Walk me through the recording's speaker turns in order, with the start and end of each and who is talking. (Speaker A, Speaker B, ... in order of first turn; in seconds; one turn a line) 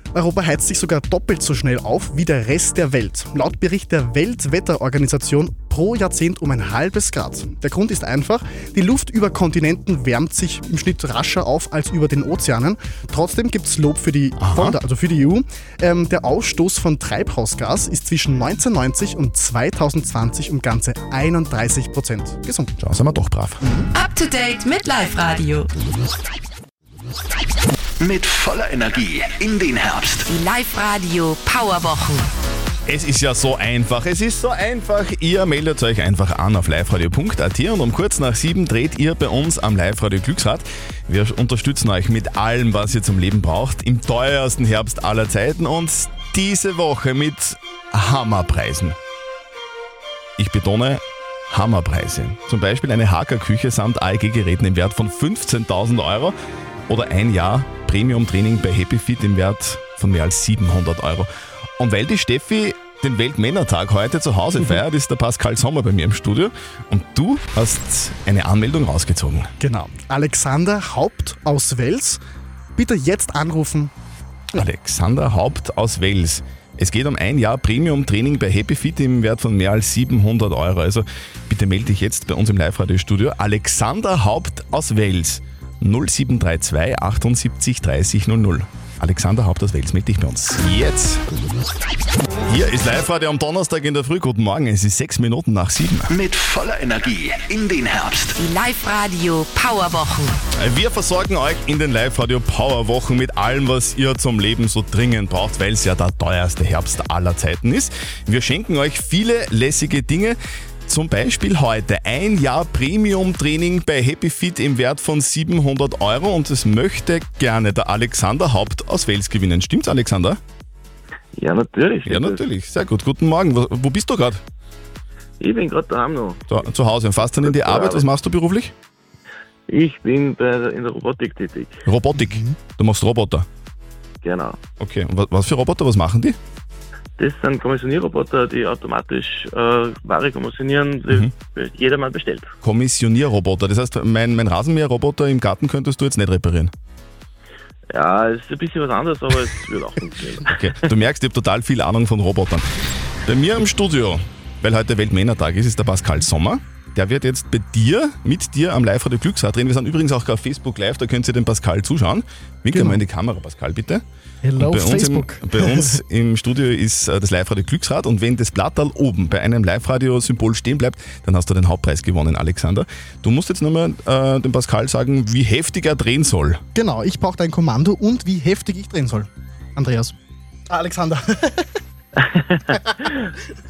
Speaker A: 0.1-22.7
Speaker B: 14.4-14.8
Speaker B: 22.8-23.6
Speaker A: 23.6-23.9
Speaker C: 23.9-25.7
Speaker D: 28.0-30.3
Speaker C: 30.3-32.2
Speaker B: 32.9-49.0
Speaker B: 50.4-56.3
Speaker B: 56.9-61.3
Speaker B: 61.8-69.5
Speaker A: 69.6-72.2
Speaker A: 72.8-73.9
Speaker B: 74.6-91.2
Speaker B: 92.5-96.1
Speaker D: 96.1-98.4
Speaker C: 98.3-100.3
Speaker B: 100.6-120.4
Speaker E: 121.3-122.4
Speaker B: 122.0-124.4
Speaker E: 125.4-126.4
Speaker B: 126.5-128.7
Speaker E: 127.3-128.1
Speaker E: 129.7-131.8
Speaker B: 131.8-133.4
Speaker A: 132.1-132.6
Speaker E: 134.2-134.6
Speaker B: 134.8-136.4
Speaker E: 137.2-142.5
Speaker B: 141.1-141.3
Speaker B: 142.6-146.7
Speaker E: 147.9-150.5
Speaker B: 150.5-152.6
Speaker B: 153.3-164.0
Speaker A: 162.7-163.0
Speaker A: 164.4-166.0
Speaker B: 164.6-176.6
Speaker A: 176.7-180.1
Speaker A: 180.7-181.7
Speaker E: 182.3-183.3